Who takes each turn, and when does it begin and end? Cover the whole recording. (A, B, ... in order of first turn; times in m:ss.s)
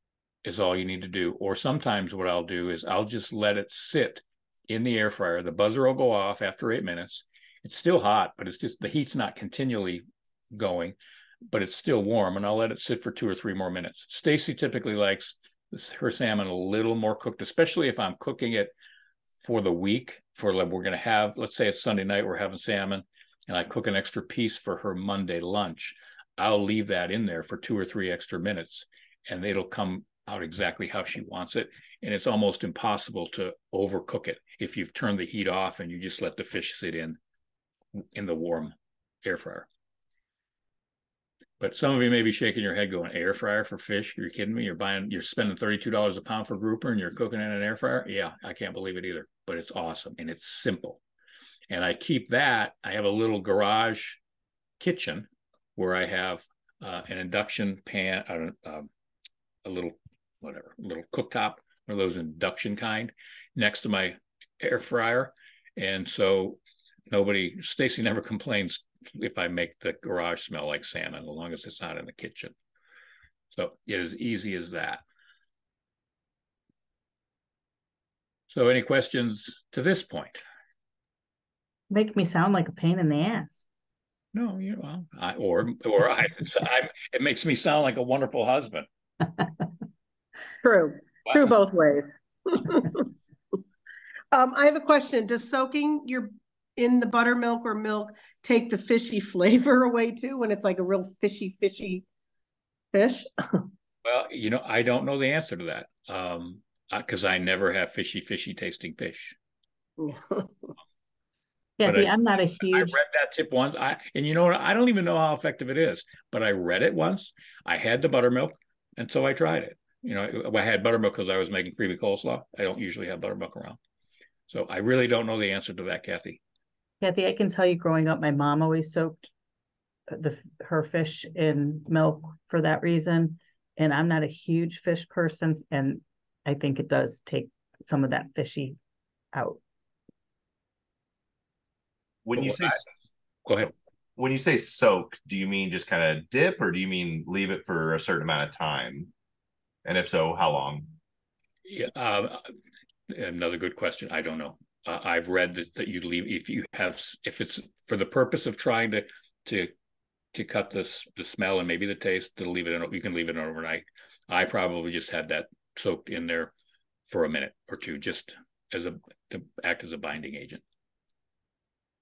0:00.4-0:18.7 A
0:19.4-0:37.2 A
0:37.9-0:39.7 A
0:41.6-0:51.0 A
0:51.7-0:54.2 A
0:54.8-0:58.9 A
0:59.6-1:12.5 A
1:13.5-1:15.0 A
1:18.5-1:20.4 A
1:21.9-1:23.6 B
1:24.3-1:28.9 A
1:30.6-1:33.1 C
1:31.2-1:31.5 A
1:34.3-1:42.0 C
1:42.9-1:43.7 C
1:44.0-1:49.3 A
1:50.0-1:50.7 C
1:51.8-1:53.0 B
1:51.8-2:03.8 A
2:04.5-2:06.4 A
2:07.0-2:09.3 B
2:10.1-2:18.8 B
2:19.3-2:19.6 B
2:22.2-2:22.9 D
2:22.3-2:22.8 A
2:23.4-2:23.7 A
2:24.2-2:29.1 D
2:29.8-2:30.9 D
2:31.6-2:32.5 A
2:33.1-2:39.7 A
2:40.3-2:46.5 A
2:47.1-2:50.6 A